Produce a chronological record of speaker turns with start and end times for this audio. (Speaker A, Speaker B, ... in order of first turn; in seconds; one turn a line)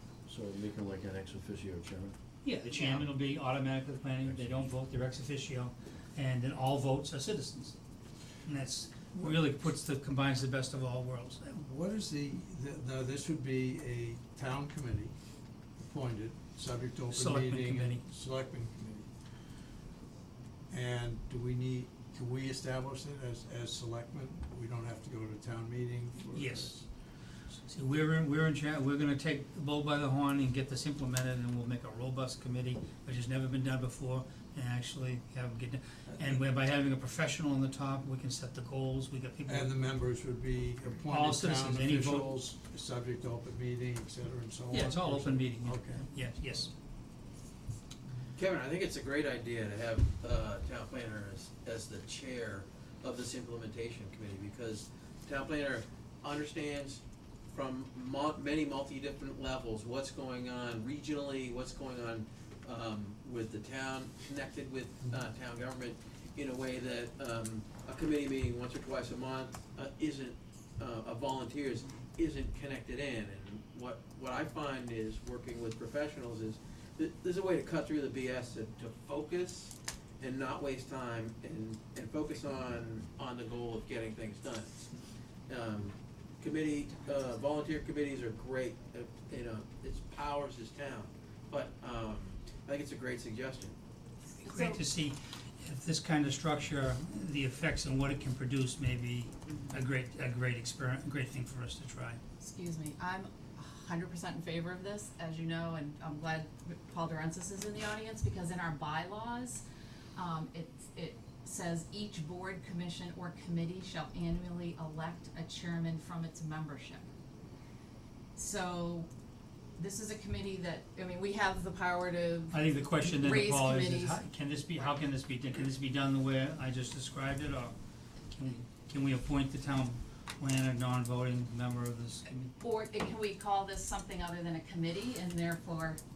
Speaker A: 0.3-2.1
Speaker B: 2.4-7.8
Speaker A: 4.2-4.7
Speaker B: 8.4-11.5
Speaker C: 11.5-15.1
Speaker C: 15.8-19.1
Speaker B: 17.1-18.0
Speaker C: 20.7-26.9
Speaker B: 26.3-26.8
Speaker B: 27.7-39.7
Speaker C: 36.1-36.4
Speaker C: 39.5-46.0
Speaker B: 41.0-42.3
Speaker B: 44.7-46.7
Speaker D: 48.4-84.7
Speaker D: 85.5-93.7
Speaker E: 86.9-87.4
Speaker E: 94.4-94.8
Speaker B: 94.4-102.2
Speaker E: 102.4-109.6
Speaker E: 110.2-117.0
Speaker E: 118.3-119.1
Speaker E: 119.8-124.2
Speaker B: 122.5-127.7
Speaker B: 128.3-132.5
Speaker E: 132.6-136.0